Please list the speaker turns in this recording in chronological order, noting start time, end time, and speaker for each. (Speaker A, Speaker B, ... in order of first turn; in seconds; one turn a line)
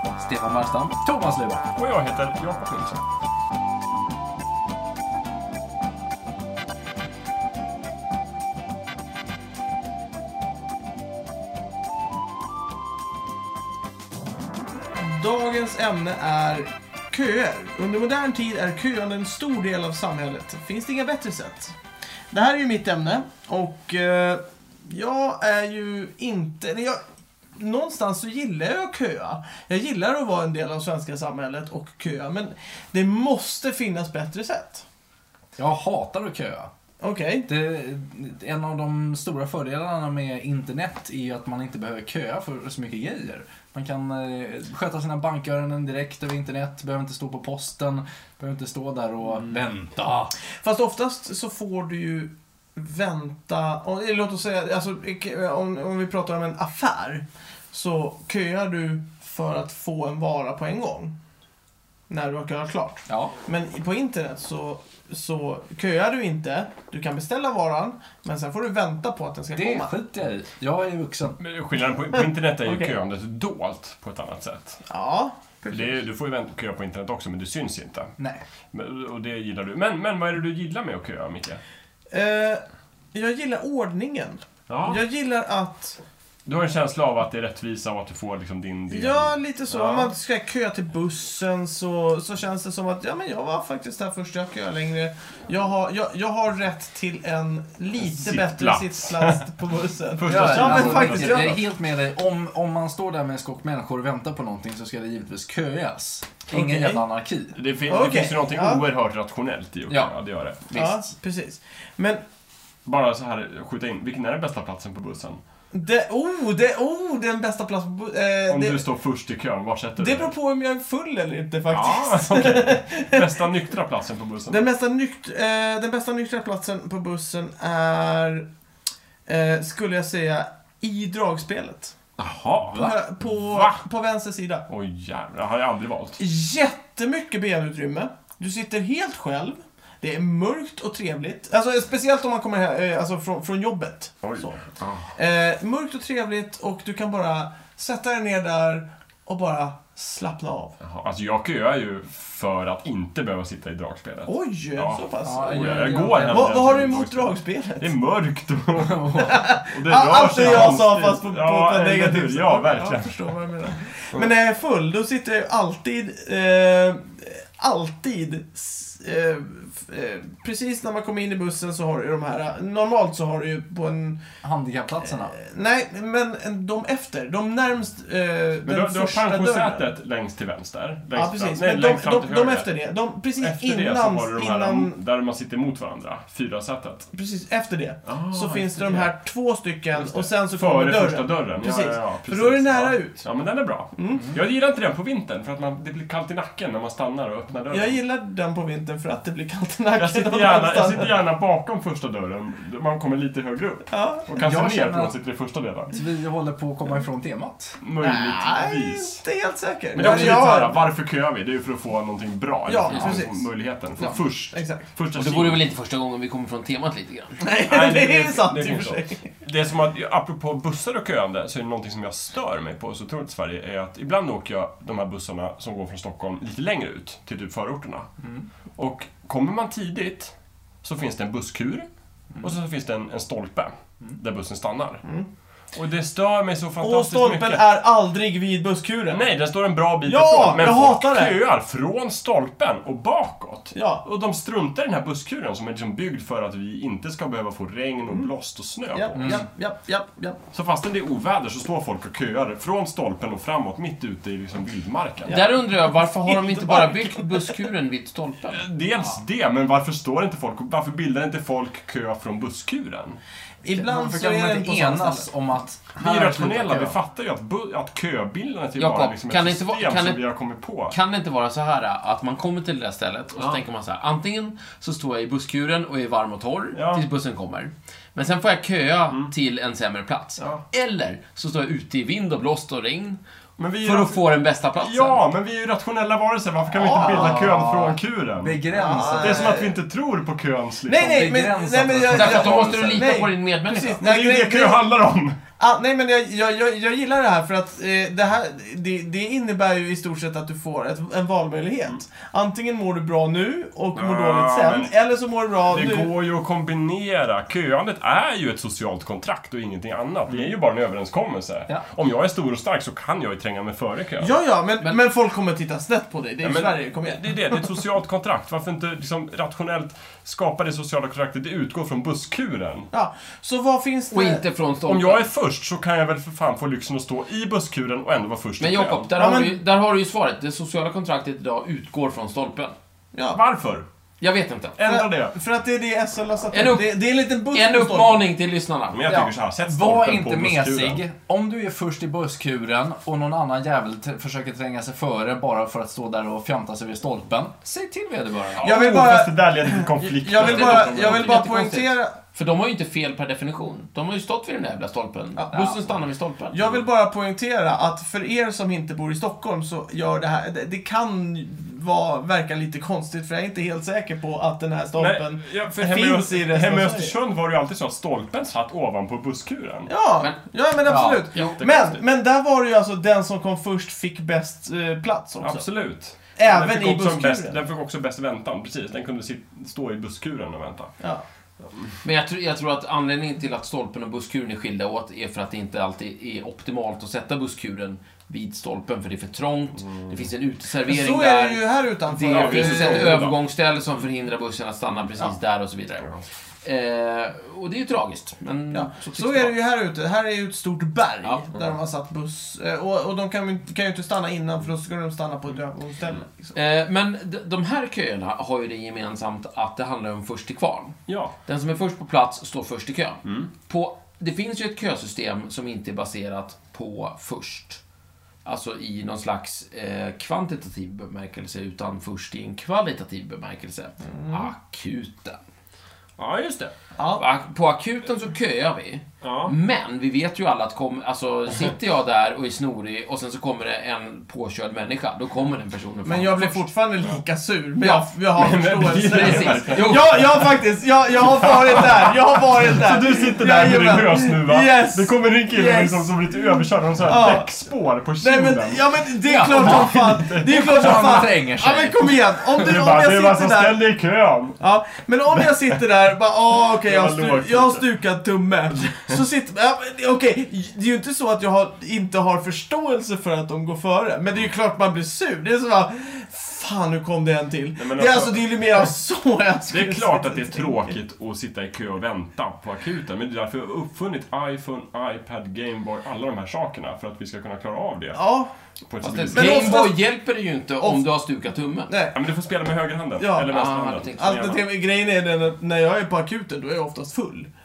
Speaker A: 0.2-1.6
Speaker B: 1.8-3.0
Speaker C: 14.9-21.8
Speaker C: 22.3-27.0
Speaker C: 27.6-34.8
Speaker A: 35.5-36.7
Speaker C: 37.0-37.5
Speaker A: 37.5-50.3
Speaker C: 50.6-61.1
Speaker C: 62.1-69.9
Speaker A: 63.1-63.3
Speaker A: 69.5-71.4
Speaker B: 71.4-74.8
Speaker C: 72.7-72.9
Speaker C: 74.9-76.0
Speaker B: 75.7-78.1
Speaker A: 78.2-78.4
Speaker B: 78.7-81.6
Speaker C: 82.1-82.6
Speaker C: 83.1-86.0
Speaker B: 84.7-85.0
Speaker B: 86.4-90.1
Speaker C: 88.9-101.6
Speaker B: 98.0-99.5
Speaker B: 100.1-101.6
Speaker A: 100.3-107.5
Speaker C: 106.5-107.0
Speaker B: 107.5-110.7
Speaker C: 107.9-108.8
Speaker D: 110.7-111.0
Speaker C: 110.7-112.2
Speaker B: 112.8-115.4
Speaker C: 115.7-118.8
Speaker B: 118.5-120.3
Speaker C: 120.0-123.3
Speaker B: 121.7-124.7
Speaker C: 124.5-128.5
Speaker C: 129.3-131.9
Speaker B: 132.2-133.8
Speaker C: 132.7-134.6
Speaker B: 134.7-136.2
Speaker C: 136.2-144.6
Speaker B: 144.2-145.1
Speaker C: 145.1-150.8
Speaker B: 150.8-163.3
Speaker C: 154.2-157.9
Speaker A: 155.2-156.8
Speaker A: 158.9-159.4
Speaker C: 159.2-174.2
Speaker A: 160.4-160.8
Speaker A: 174.4-175.3
Speaker C: 175.2-179.9
Speaker B: 178.7-182.7
Speaker C: 181.2-184.9
Speaker B: 183.4-187.1
Speaker C: 187.1-193.2
Speaker B: 188.1-189.1
Speaker B: 189.9-198.0
Speaker C: 193.9-194.3
Speaker C: 197.7-201.2
Speaker B: 199.9-205.9
Speaker C: 203.9-204.3
Speaker A: 204.4-205.2
Speaker A: 205.9-207.8
Speaker B: 207.8-209.2
Speaker C: 208.0-210.8
Speaker B: 209.9-215.7
Speaker A: 210.0-210.3
Speaker C: 212.7-214.8
Speaker D: 215.1-217.4
Speaker C: 217.4-219.2
Speaker B: 217.7-228.1
Speaker B: 228.8-231.9
Speaker B: 232.4-235.0
Speaker B: 235.7-237.6
Speaker C: 236.8-239.2
Speaker B: 239.1-249.4
Speaker C: 240.0-241.3
Speaker C: 243.7-244.0
Speaker C: 248.9-250.4
Speaker A: 249.2-249.5
Speaker B: 250.5-255.4
Speaker C: 255.2-257.5
Speaker D: 255.3-258.6
Speaker B: 258.5-263.2
Speaker C: 263.6-265.3
Speaker A: 263.7-267.0
Speaker B: 266.0-270.9
Speaker D: 268.8-270.2
Speaker D: 270.9-283.2
Speaker B: 276.7-277.0
Speaker B: 280.4-280.6
Speaker B: 283.6-284.2
Speaker D: 283.8-285.2
Speaker B: 284.8-291.3
Speaker C: 286.7-287.6
Speaker A: 286.9-289.6
Speaker C: 288.7-289.7
Speaker C: 290.8-294.8
Speaker A: 291.0-293.1
Speaker D: 292.1-294.0
Speaker B: 294.0-295.4
Speaker C: 295.6-306.1
Speaker B: 303.9-304.9
Speaker B: 305.6-314.3
Speaker C: 314.2-317.7
Speaker B: 316.4-322.9
Speaker C: 322.9-324.4
Speaker D: 324.1-325.3
Speaker B: 324.9-329.1
Speaker D: 328.6-332.7
Speaker C: 329.1-329.6
Speaker C: 333.1-333.4
Speaker B: 333.3-333.8
Speaker D: 334.2-334.8
Speaker B: 334.8-335.4
Speaker C: 334.8-338.2
Speaker D: 336.5-336.9
Speaker D: 337.5-339.1
Speaker B: 338.9-341.0
Speaker A: 339.1-348.7
Speaker B: 348.6-351.4
Speaker C: 348.6-352.2
Speaker D: 350.4-356.6
Speaker C: 355.3-355.8
Speaker C: 356.5-367.1
Speaker B: 365.0-369.9
Speaker C: 369.9-375.6
Speaker D: 370.2-371.9
Speaker A: 370.9-371.2
Speaker B: 371.6-372.0
Speaker B: 375.4-380.9
Speaker C: 376.4-377.6
Speaker D: 382.0-396.1
Speaker B: 389.8-390.2
Speaker C: 390.9-393.2
Speaker B: 392.2-393.4
Speaker D: 396.6-399.5
Speaker C: 398.7-406.5
Speaker D: 406.5-417.8
Speaker B: 411.1-411.3
Speaker B: 413.2-413.5
Speaker D: 418.4-425.4
Speaker C: 424.0-424.5
Speaker B: 426.2-426.7
Speaker C: 427.0-427.2
Speaker D: 427.1-436.7
Speaker B: 429.2-429.5
Speaker C: 436.0-447.5
Speaker D: 437.8-438.1
Speaker B: 438.4-440.5
Speaker D: 439.0-440.2
Speaker B: 441.2-451.3
Speaker C: 448.2-453.8
Speaker A: 449.2-452.5
Speaker B: 452.5-454.6
Speaker C: 454.6-470.9
Speaker B: 455.3-455.8
Speaker B: 456.7-457.8
Speaker B: 467.8-468.9
Speaker B: 469.7-478.2
Speaker C: 478.1-478.5
Speaker B: 478.9-479.8
Speaker D: 479.0-481.9
Speaker C: 479.3-480.0
Speaker C: 481.9-482.2
Speaker B: 482.1-484.6
Speaker C: 483.2-483.5
Speaker D: 483.5-484.4
Speaker C: 484.1-487.5